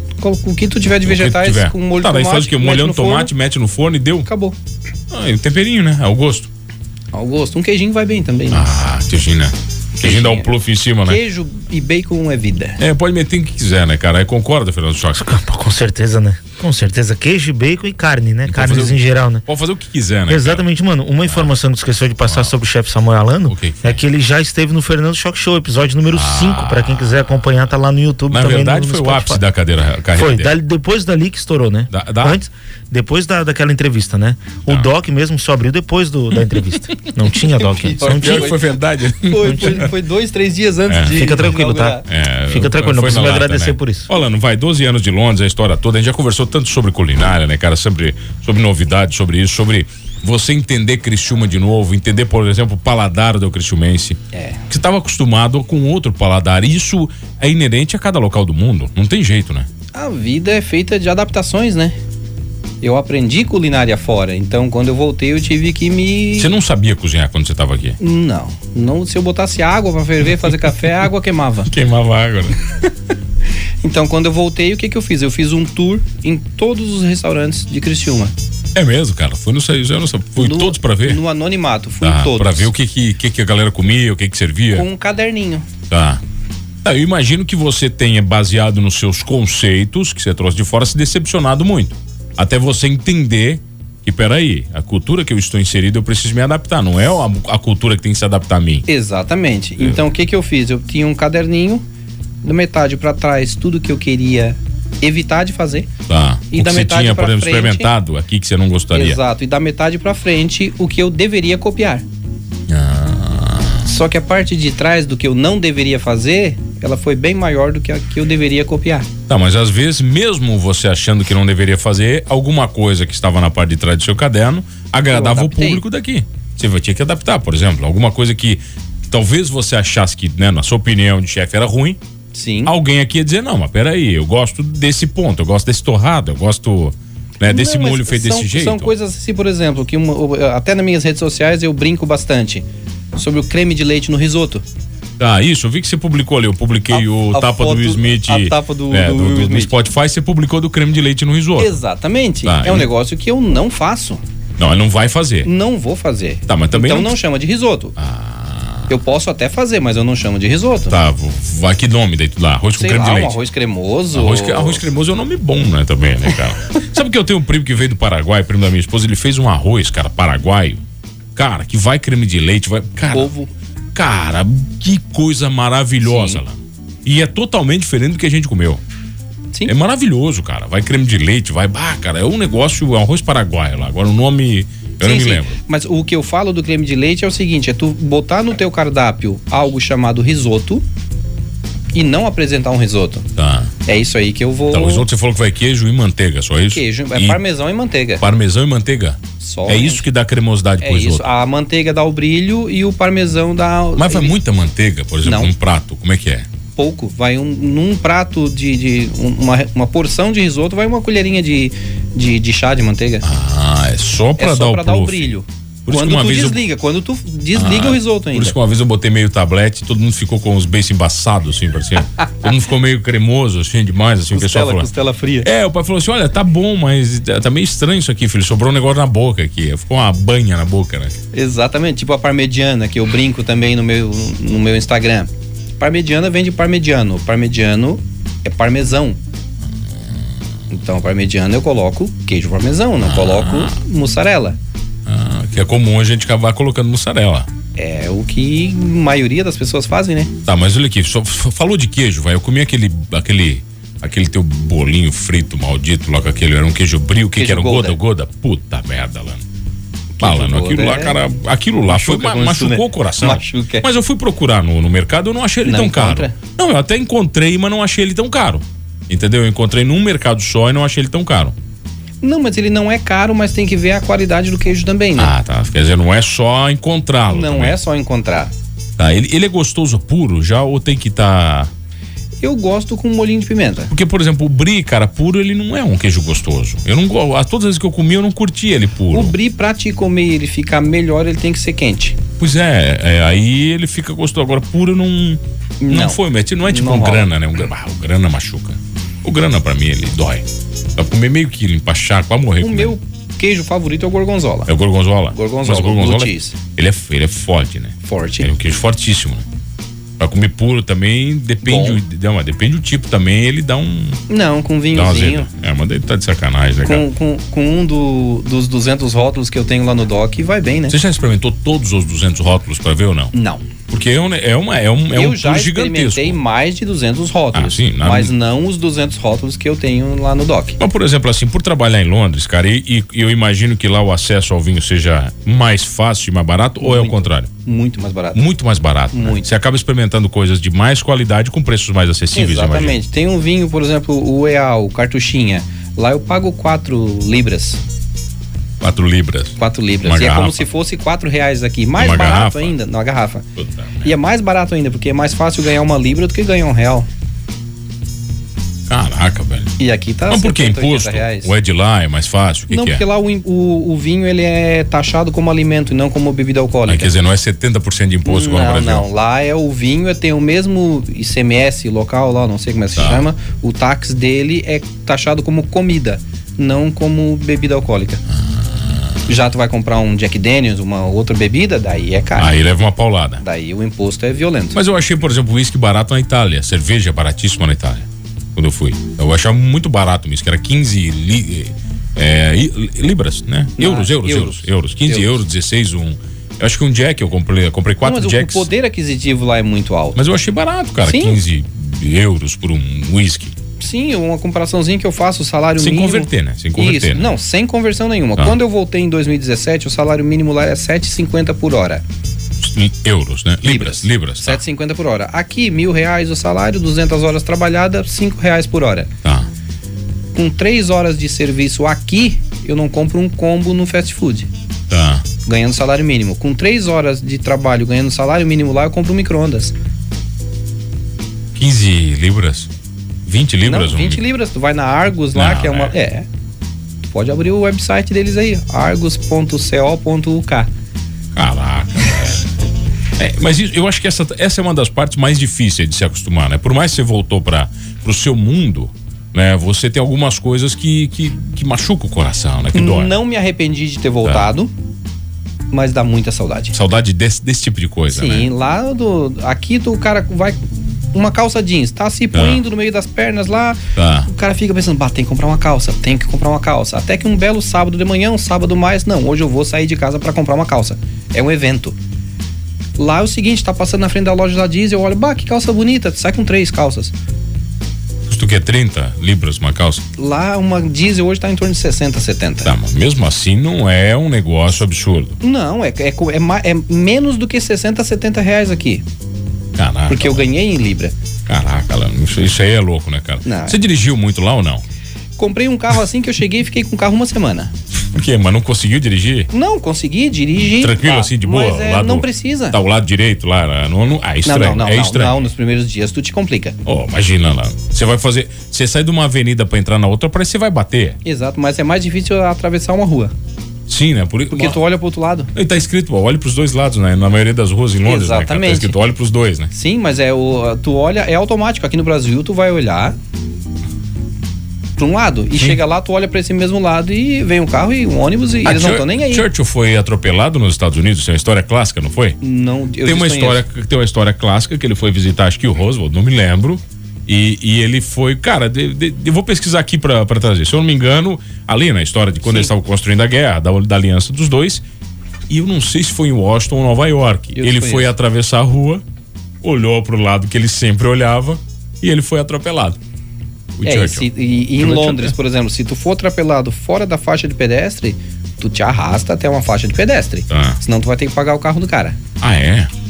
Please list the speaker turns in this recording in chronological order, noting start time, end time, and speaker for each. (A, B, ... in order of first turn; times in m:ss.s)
0:00.2-0:03.3 A
0:00.9-0:04.3 B
0:04.3-0:04.6 A
0:05.1-0:06.5 B
0:07.1-0:08.7 A
0:08.5-0:11.2 B
0:10.0-0:10.5 A
0:11.0-0:12.8 A
0:12.8-0:15.3 B
0:15.2-0:19.4 C
0:18.5-0:20.6 B
0:20.3-0:29.4 C
0:21.3-0:21.5 B
0:22.2-0:22.6 B
0:23.5-0:24.0 B
0:26.1-0:27.7 B
0:28.3-0:30.5 B
0:30.1-0:38.6 C
0:31.9-0:32.4 B
0:37.6-0:42.0 A
0:38.0-0:39.9 B
0:39.5-0:39.8 C
0:40.9-0:41.4 B
0:41.1-0:44.1 C
0:42.0-0:59.7 B
0:54.3-0:54.6 A
0:59.9-1:02.0 A
1:02.8-1:06.5 A
1:06.4-1:08.0 B
1:08.0-1:11.7 A
1:10.4-1:10.7 B
1:11.7-1:12.7 B
1:13.8-1:18.3 A
1:18.8-1:21.2 B
1:20.4-1:22.7 A
1:22.0-1:24.9 B
1:24.8-1:25.7 A
1:25.9-1:26.2 B
1:26.8-1:38.9 B
1:38.9-1:41.8 A
1:42.4-1:45.9 A
1:46.1-1:49.2 B
1:46.5-1:47.9 A
1:48.9-1:52.0 A
1:52.7-1:53.9 B
1:53.8-1:59.1 A
1:59.3-2:12.0 B
2:05.1-2:05.8 A
2:12.3-2:12.8 A
2:12.7-2:18.9 B
2:17.4-2:22.6 A
2:23.2-2:24.6 A
2:25.2-2:31.8 B
2:26.9-2:29.7 A
2:31.6-2:34.2 A
2:32.4-2:32.9 B
2:34.6-2:35.5 B
2:35.4-2:38.0 A
2:36.5-2:37.2 B
2:38.0-2:39.0 B
2:38.9-2:41.0 A
2:40.9-2:43.4 B
2:42.8-2:44.8 A
2:44.1-2:50.8 B
2:51.4-2:53.3 B
2:53.1-2:53.5 A
2:53.9-2:58.8 B
2:56.0-2:56.4 A
2:59.7-3:05.6 B
3:05.0-3:10.8 A
3:11.9-3:13.3 A
3:13.4-3:13.7 B
3:13.9-3:15.1 A
3:14.7-3:17.4 B
3:16.7-3:18.2 A
3:18.2-3:21.3 B
3:19.4-3:20.1 A
3:20.8-3:24.4 A
3:24.0-3:26.5 B
3:25.2-3:25.5 A
3:26.8-3:33.2 A
3:33.2-3:36.6 B
3:34.4-3:38.6 A
3:37.6-3:44.9 B
3:44.3-3:45.5 A
3:45.4-3:51.1 B
3:51.3-3:59.2 A
4:00.7-4:04.6 A
4:03.0-4:03.8 B
4:05.1-4:07.5 B
4:07.8-4:10.3 A
4:10.4-4:19.4 B
4:17.4-4:18.0 A
4:20.2-4:21.2 A
4:20.2-4:31.6 B
4:21.9-4:23.9 A
4:25.6-4:26.4 A
4:32.2-4:35.3 A
4:35.2-4:37.8 B
4:37.3-4:38.5 A
4:39.0-4:41.7 B
4:42.4-4:43.9 A
4:43.9-4:49.4 B
4:49.1-4:52.2 A
4:52.4-5:03.0 B
4:55.8-4:57.3 A
5:02.6-5:04.7 A
5:04.7-5:09.5 B
5:05.3-5:06.6 A
5:08.0-5:08.5 A
5:10.2-5:14.2 B
5:11.6-5:12.0 A
5:14.3-5:15.5 A
5:14.9-5:17.1 B
5:16.9-5:21.0 A
5:20.9-5:23.3 B
5:23.3-5:23.6 A
5:23.9-5:26.4 B
5:25.1-5:30.8 A
5:27.5-5:28.3 B
5:30.8-5:37.5 B
5:36.8-5:38.4 A
5:38.4-5:43.0 B
5:39.1-5:39.5 A
5:42.4-5:47.8 A
5:48.8-5:50.7 B
5:49.6-5:53.4 A
5:52.0-5:52.8 B
5:53.6-5:54.1 B
5:54.0-5:57.1 A
5:58.9-5:59.8 B
5:59.8-6:01.5 A
6:00.3-6:03.0 B
6:02.7-6:07.1 A
6:06.9-6:09.1 B
6:08.2-6:18.2 A
6:13.0-6:13.3 B
6:18.3-6:19.2 B
6:19.3-6:22.6 A
6:22.4-6:23.4 B
6:23.4-6:24.8 A
6:24.7-6:38.7 B
6:33.8-6:35.4 A
6:38.0-6:40.2 A
6:40.2-6:43.6 B
6:41.0-6:41.4 A
6:43.8-6:52.0 A
6:45.8-6:47.4 B
6:52.6-6:54.6 B
6:53.6-6:59.1 A
6:59.2-6:59.5 B
7:00.4-7:04.5 A
7:04.9-7:05.3 B
7:05.4-7:09.7 A
7:11.6-7:12.7 B
7:13.3-7:14.2 B
7:13.7-7:16.3 A
7:15.3-7:16.0 B
7:17.1-7:20.7 A
7:21.4-7:22.5 B
7:23.2-7:33.1 B
7:32.7-7:34.7 A
7:35.7-7:36.8 A
7:36.7-7:38.5 B
7:38.1-7:52.0 A
7:42.3-7:42.6 B
7:44.0-7:44.3 B
7:53.0-7:57.1 A
7:58.3-8:00.0 B
8:00.2-8:02.7 A
8:02.6-8:05.4 B
8:05.4-8:09.0 A
8:09.8-8:10.5 B
8:10.1-8:11.2 A
8:11.5-8:14.8 B
8:13.4-8:13.8 A
8:15.4-8:17.7 A
8:18.0-8:19.5 B
8:19.5-8:22.8 A
8:20.6-8:25.5 B
8:24.4-8:26.8 A
8:26.8-8:31.2 B
8:31.2-8:33.3 A
8:33.9-8:34.8 B
8:34.5-8:35.5 A
8:35.6-8:39.7 B
8:38.0-8:39.0 A
8:39.7-8:43.2 A
8:45.0-8:49.5 A
8:48.6-8:52.4 B
8:52.4-8:53.6 A
8:53.0-9:04.8 B
9:02.4-9:02.7 A
9:05.5-9:09.0 B
9:07.6-9:08.1 A
9:09.6-9:13.0 B
9:13.8-9:15.4 B
9:13.8-9:22.2 A
9:20.5-9:20.8 B
9:22.4-9:22.9 B